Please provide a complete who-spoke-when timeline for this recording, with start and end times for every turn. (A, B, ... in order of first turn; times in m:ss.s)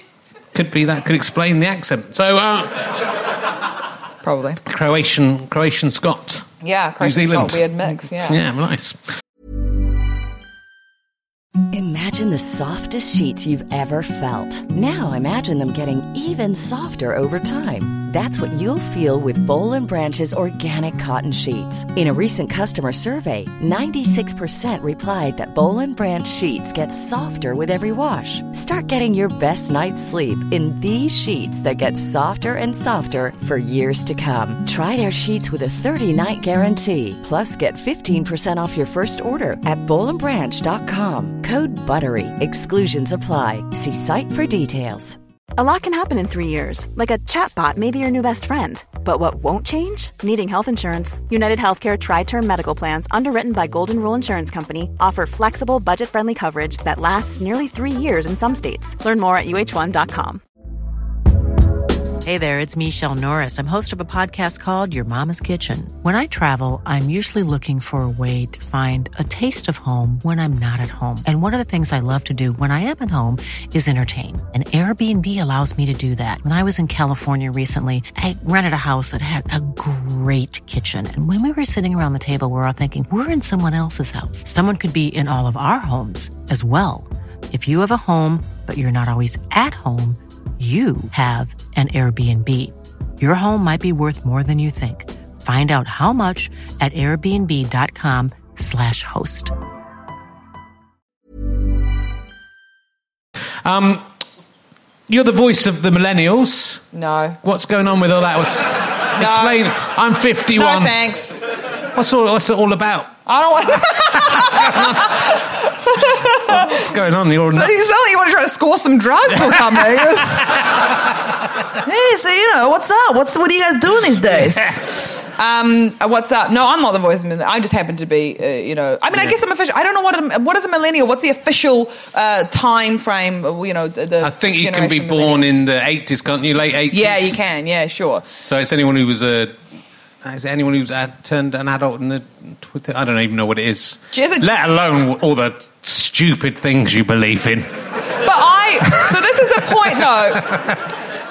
0:00.5-0:02.9 A
0:04.2-0:04.6 B
0:04.6-0:09.0 A
0:06.6-0:08.4 B
0:11.7-0:45.2 C
0:45.6-1:00.4 D
1:02.2-1:39.5 E
1:43.6-1:44.0 A
1:45.1-1:46.8 A
1:46.9-1:47.4 B
1:47.4-1:51.0 A
1:49.2-1:49.6 B
1:50.5-1:51.4 B
1:51.9-1:53.1 A
1:53.2-1:56.8 B
1:54.1-1:55.3 A
1:56.3-1:57.9 A
1:57.5-2:00.6 B
1:59.5-1:59.8 A
2:01.8-2:15.4 B
2:14.2-2:17.4 A
2:16.9-2:18.3 B
2:18.4-2:19.5 A
2:20.2-2:27.7 A
2:24.1-2:24.5 B
2:28.2-2:30.6 B